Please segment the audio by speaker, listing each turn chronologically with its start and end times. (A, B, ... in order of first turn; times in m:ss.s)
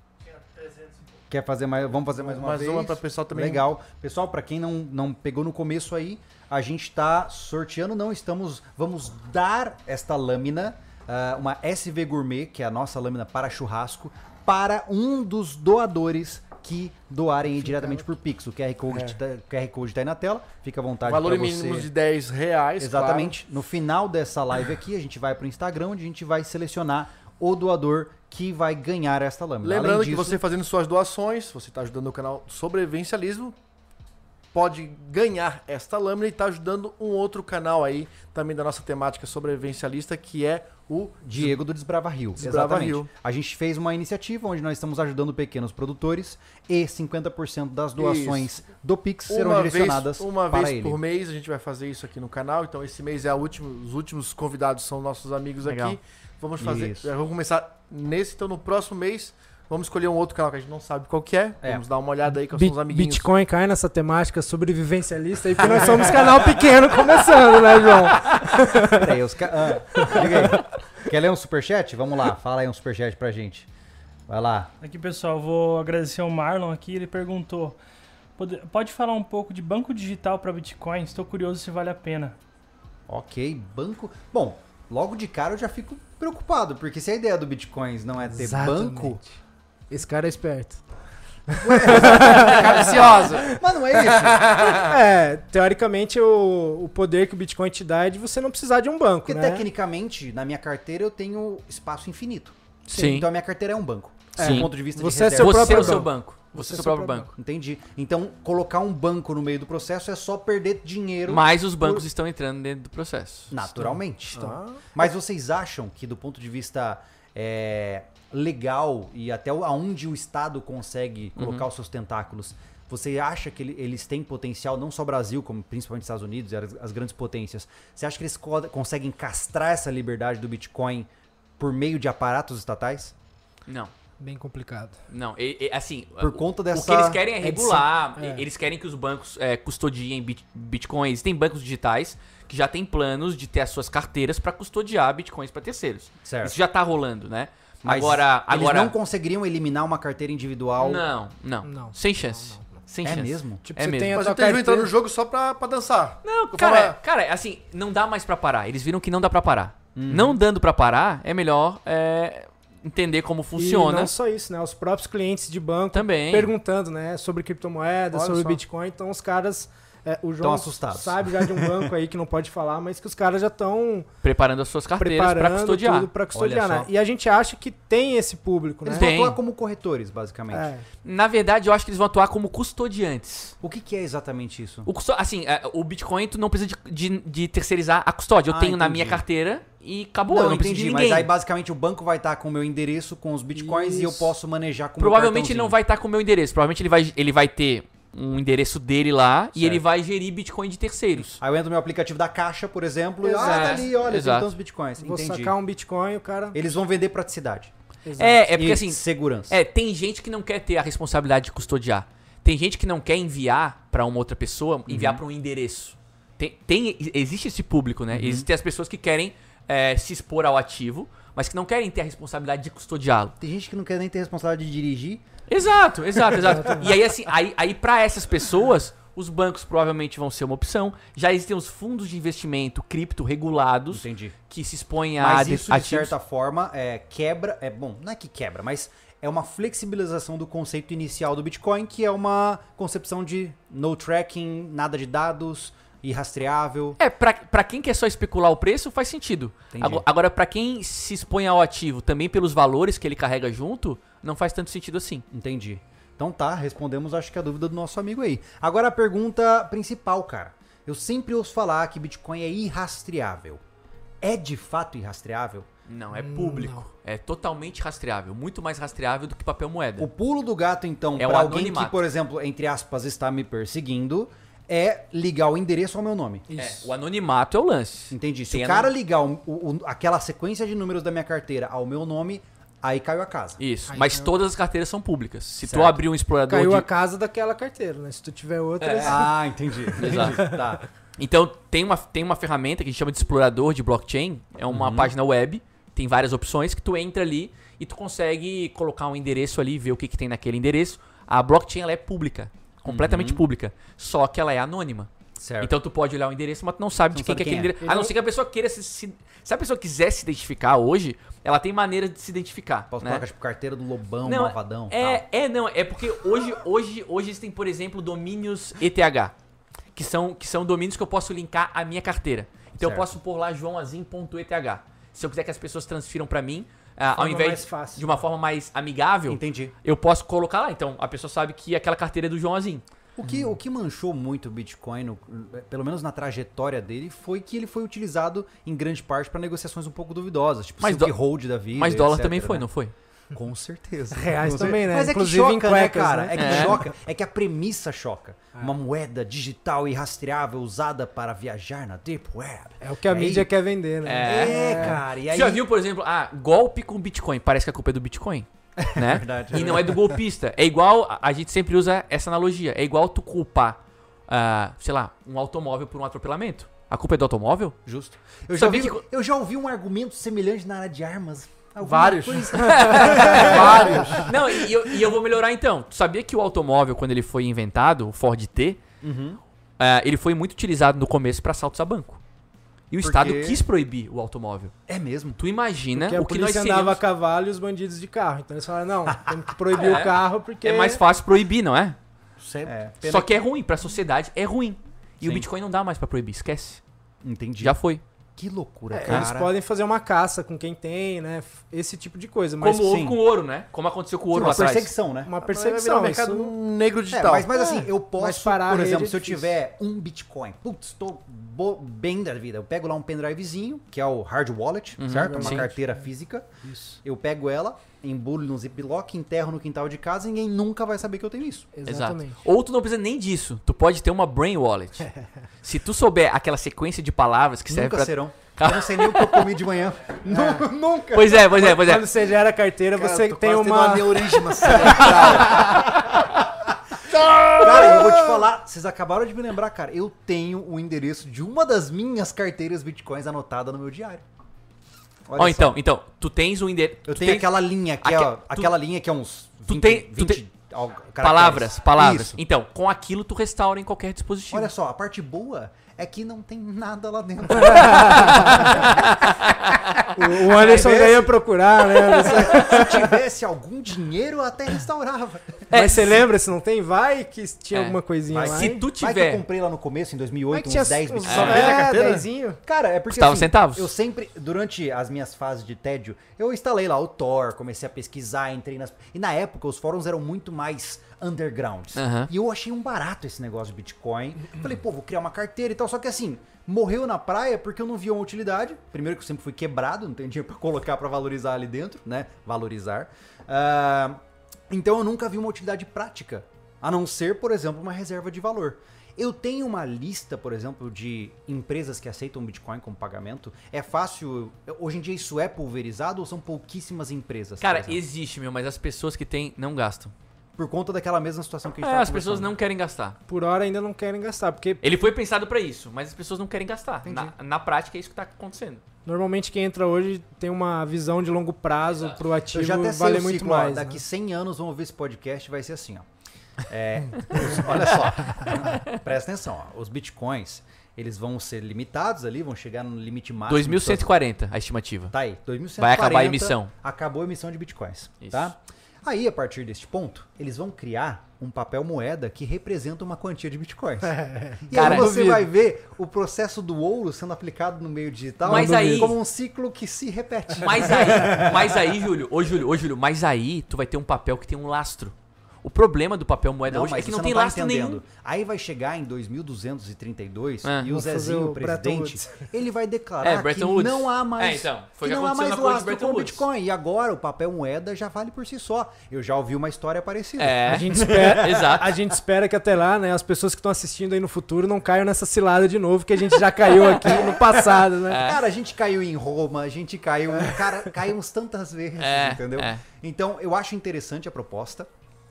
0:00.3-0:01.0 A
0:01.3-0:21.9 B
0:02.2-0:03.7 C
0:17.6-0:18.0 D
0:18.9-0:19.2 C
0:21.0-0:23.4 C
0:22.8-0:30.4 B
0:29.6-0:33.6 C
0:34.5-0:41.5 C
0:41.2-0:51.0 B
0:42.4-0:43.1 C
0:48.0-0:48.5 C
0:49.3-1:03.3 C
0:55.6-0:56.0 E
0:56.6-0:57.1 B
1:02.4-1:09.2 D
1:05.6-1:06.7 B
1:08.8-1:13.7 B
1:09.9-1:10.6 D
1:14.3-1:14.7 B
1:14.8-1:17.8 A
1:18.4-1:22.4 A
1:23.1-1:29.2 B
1:28.3-1:29.4 D
1:29.9-1:30.8 D
1:31.5-1:32.9 D
1:31.6-1:34.8 B
1:32.2-1:33.5 C
1:34.3-1:35.0 C
1:34.7-1:39.6 D
1:39.2-1:46.1 B
1:42.9-1:43.3 E
1:44.4-1:47.3 D
1:44.4-1:44.7 E
1:45.4-1:47.3 E
1:47.4-1:52.0 B
1:51.3-1:53.5 E
1:53.5-1:54.4 B
1:53.8-1:54.8 D
1:54.9-2:11.1 B
2:01.4-2:01.6 E
2:11.6-2:13.1 B
2:13.7-2:13.9 E
2:14.2-2:15.0 D
2:15.1-2:28.9 E
2:16.2-2:17.2 B
2:17.4-2:18.4 D
2:26.2-2:26.6 B
2:27.8-2:31.0 B
2:30.8-2:34.2 E
2:31.6-2:32.7 D
2:33.0-2:33.6 B
2:33.6-2:34.9 D
2:34.1-2:37.0 C
2:36.2-2:44.1 E
2:39.9-2:40.4 B
2:43.6-2:54.1 D
2:45.9-2:46.5 E
2:48.1-2:48.6 C
2:50.4-2:51.9 B
2:54.2-2:56.1 E
2:55.0-2:59.1 D
2:56.3-2:56.9 B
2:58.8-3:00.7 B
2:58.9-2:59.4 E
3:00.5-3:00.8 D
3:01.0-3:03.5 E
3:03.6-3:04.9 B
3:04.8-3:11.3 E
3:08.5-3:09.2 B
3:10.3-3:15.7 B
3:13.5-3:14.3 D
3:15.0-3:21.4 E
3:19.6-3:19.8 B
3:21.4-3:25.6 B
3:23.2-3:23.9 D
3:23.4-3:24.5 E
3:25.0-3:26.6 D
3:26.5-3:27.7 B
3:28.0-3:28.4 D
3:28.2-3:43.3 E
3:28.5-3:29.6 B
3:34.9-3:35.2 B
3:38.1-3:38.4 B
3:43.4-3:45.2 B
3:45.5-3:56.1 E
3:46.6-3:46.9 D
3:53.9-3:54.4 B
3:55.2-4:07.0 B
4:07.0-4:15.2 E
4:09.7-4:10.0 B
4:15.3-4:23.6 B
4:24.2-4:25.7 B
4:25.9-4:30.1 E
4:26.1-4:26.8 D
4:30.0-4:36.5 B
4:31.2-4:32.0 E
4:36.5-4:36.9 D
4:36.6-4:38.9 E
4:38.1-4:43.6 B
4:43.6-4:46.9 E
4:43.9-4:44.3 D
4:45.6-4:46.0 B
4:46.5-4:49.3 D
4:48.8-4:49.3 E
4:49.0-4:50.8 B
4:50.0-4:50.4 E
4:50.0-4:50.7 D
4:51.2-5:13.2 E
4:54.7-4:55.1 B
5:02.9-5:03.4 B
5:05.4-5:05.7 B
5:07.1-5:07.7 B
5:07.8-5:08.1 D
5:12.9-5:15.2 B
5:14.2-5:19.3 E
5:19.9-5:32.8 E
5:22.8-5:23.1 B
5:27.1-5:28.1 D
5:29.3-5:29.7 B
5:33.2-5:42.6 B
5:40.8-5:41.1 E
5:41.7-5:42.9 E
5:43.3-5:53.5 B
5:44.1-5:46.7 D
5:46.3-5:46.8 E
5:52.8-5:55.0 D
5:54.0-6:07.8 E
5:54.2-5:55.6 B
5:58.8-6:00.2 B
6:07.8-6:14.3 B
6:08.5-6:09.0 E
6:11.8-6:14.3 C
6:12.6-6:18.8 E
6:19.0-6:19.4 B
6:19.8-6:22.2 E
6:22.9-6:24.7 E
6:23.0-6:23.6 B
6:24.9-6:25.4 B
6:25.4-6:27.0 E
6:25.9-6:31.0 D
6:29.7-6:32.0 E
6:32.4-6:33.3 B
6:33.0-6:36.8 E
6:35.2-6:35.4 B
6:37.2-6:37.8 B
6:37.6-6:38.0 E
6:38.4-6:39.5 B
6:38.9-6:42.9 D
6:42.6-6:44.9 E
6:42.8-6:43.2 B
6:44.3-6:45.3 B
6:45.2-6:46.5 D
6:45.4-6:47.6 C
6:47.1-6:56.5 B
6:47.5-6:49.5 D
6:55.0-6:55.7 E
6:55.3-6:55.8 D
6:56.6-6:57.0 D
6:57.0-7:01.7 B
7:01.7-7:02.4 D
7:01.8-7:05.1 E
7:05.6-7:09.5 E
7:07.7-7:11.5 B
7:10.3-7:15.9 D
7:11.1-7:12.1 E
7:12.9-7:16.0 C
7:14.6-7:16.0 B
7:17.1-7:18.2 C
7:17.5-7:24.2 B
7:25.3-7:25.8 B
7:25.4-7:27.5 E
7:27.1-7:32.4 B
7:28.0-7:28.7 E
7:29.7-7:30.4 E
7:31.2-7:34.7 E
7:34.5-7:39.3 B
7:37.6-7:38.9 D
7:37.6-7:40.9 E
7:40.1-7:43.2 D
7:40.1-7:41.4 B
7:42.0-7:45.9 B
7:45.7-7:46.2 E
7:45.7-7:48.8 D
7:47.7-7:49.4 E
7:48.3-7:52.1 B
7:50.5-7:52.6 D
7:51.2-7:51.7 E
7:51.3-7:52.3 C
7:52.6-8:28.0 B
7:53.1-7:53.9 E
8:01.9-8:02.3 E
8:27.6-8:30.1 E
8:30.6-8:32.5 B
8:31.8-8:33.2 E
8:33.3-8:34.8 D
8:34.8-8:38.8 E
8:37.0-8:37.3 B
8:39.0-8:44.0 D
8:41.9-8:42.2 E
8:42.5-8:46.0 B
8:46.7-8:54.1 B
8:48.7-8:49.0 E
8:53.5-8:55.1 E
8:55.1-9:11.8 B
8:55.8-8:56.7 E
8:58.2-8:58.5 E
9:04.2-9:05.5 D
9:04.7-9:05.1 E
9:08.4-9:09.1 D
9:08.4-9:09.2 E
9:10.6-9:18.0 E
9:16.7-9:32.0 B
9:20.6-9:20.9 E
9:20.9-9:22.4 D
9:23.2-9:26.4 E
9:30.4-9:31.9 E
9:30.7-9:38.2 D
9:36.9-9:44.9 B
9:38.1-9:38.4 E
9:42.0-9:42.8 E